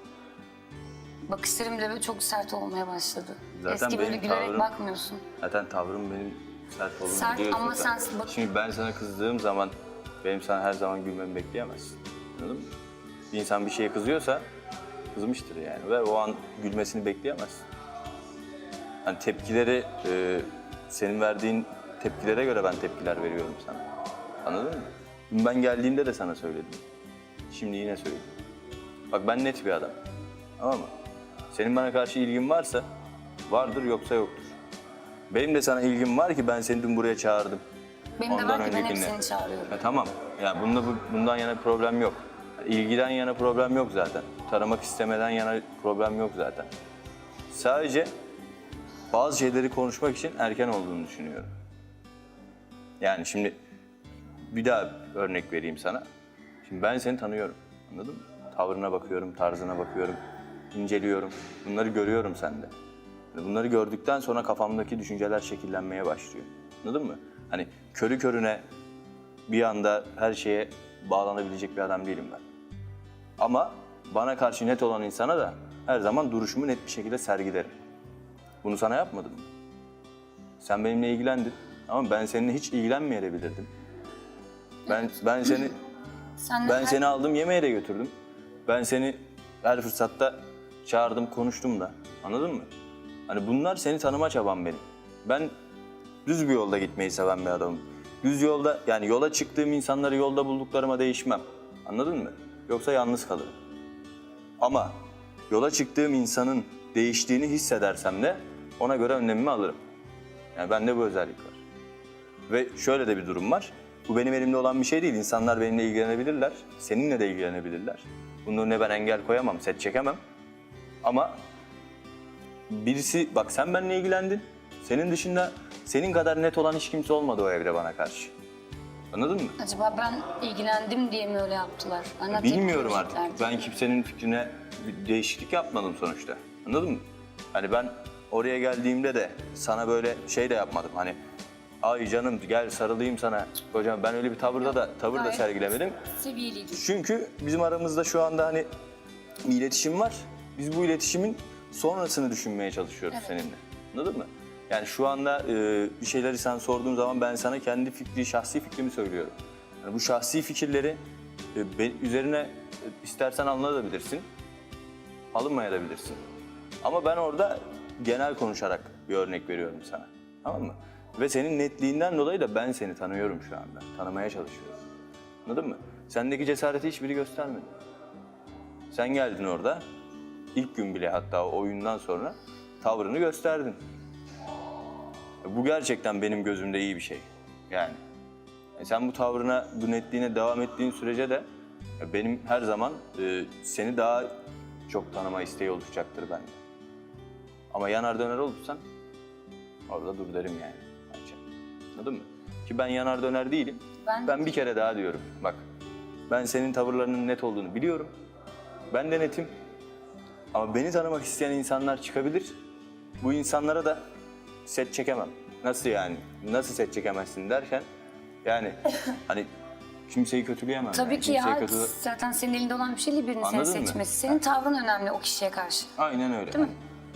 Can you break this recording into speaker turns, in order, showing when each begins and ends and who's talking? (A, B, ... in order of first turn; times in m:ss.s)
0:01.3-0:05.2 A
0:03.6-0:04.7 B
0:05.4-0:12.7 B
0:07.1-0:08.4 A
0:13.3-0:14.4 B
0:15.1-0:17.6 B
0:19.0-0:23.8 B
0:24.4-0:26.8 B
0:27.5-0:28.3 B
0:29.1-0:30.0 B
0:30.6-0:30.9 B
0:31.5-0:32.9 B
0:33.5-0:34.5 B
0:35.3-0:37.6 B
0:38.2-0:39.8 A
0:38.3-0:46.7 B
0:47.5-0:48.1 B
0:49.1-0:51.5 B
0:53.0-0:53.6 B
0:54.5-0:56.0 B
0:56.6-1:00.2 B
1:00.7-1:02.7 B
1:03.3-1:08.6 B
1:09.5-1:12.4 B
1:13.4-1:17.7 B
1:18.6-1:19.5 B
1:20.6-1:23.7 B
1:24.9-1:25.8 B
1:26.4-1:27.2 A
1:26.6-1:28.1 B
1:28.7-1:32.7 B
1:33.3-1:35.5 B
1:36.2-1:43.5 B
1:44.6-1:45.0 B
1:45.5-1:49.8 B
1:50.6-1:51.6 B
1:52.5-2:00.2 B
2:01.0-2:01.3 B
2:02.7-2:08.3 B
2:09.1-2:09.6 B
2:09.6-2:13.6 A
2:12.3-2:21.2 B
2:21.8-2:26.0 B
2:24.6-2:26.8 A
2:26.7-2:28.7 B
2:29.4-2:41.0 B
2:41.5-2:44.3 B
2:45.3-2:46.2 B
2:46.8-2:54.8 B
2:55.5-2:57.7 B
2:58.9-2:59.8 B
3:00.6-3:03.8 B
3:05.4-3:08.0 B
3:08.8-3:11.5 B
3:12.0-3:14.3 B
3:14.9-3:16.6 B
3:17.7-3:18.8 B
3:19.9-3:21.4 B
3:22.0-3:25.6 B
3:24.0-3:24.5 A
3:26.3-3:28.1 B
3:28.9-3:29.5 B
3:30.5-3:32.5 B
3:33.2-3:34.0 B
3:34.7-3:37.9 B
3:38.4-3:39.5 B
3:40.1-3:41.9 B
3:40.9-3:45.9 A
3:43.4-3:44.4 B
3:46.0-3:46.8 B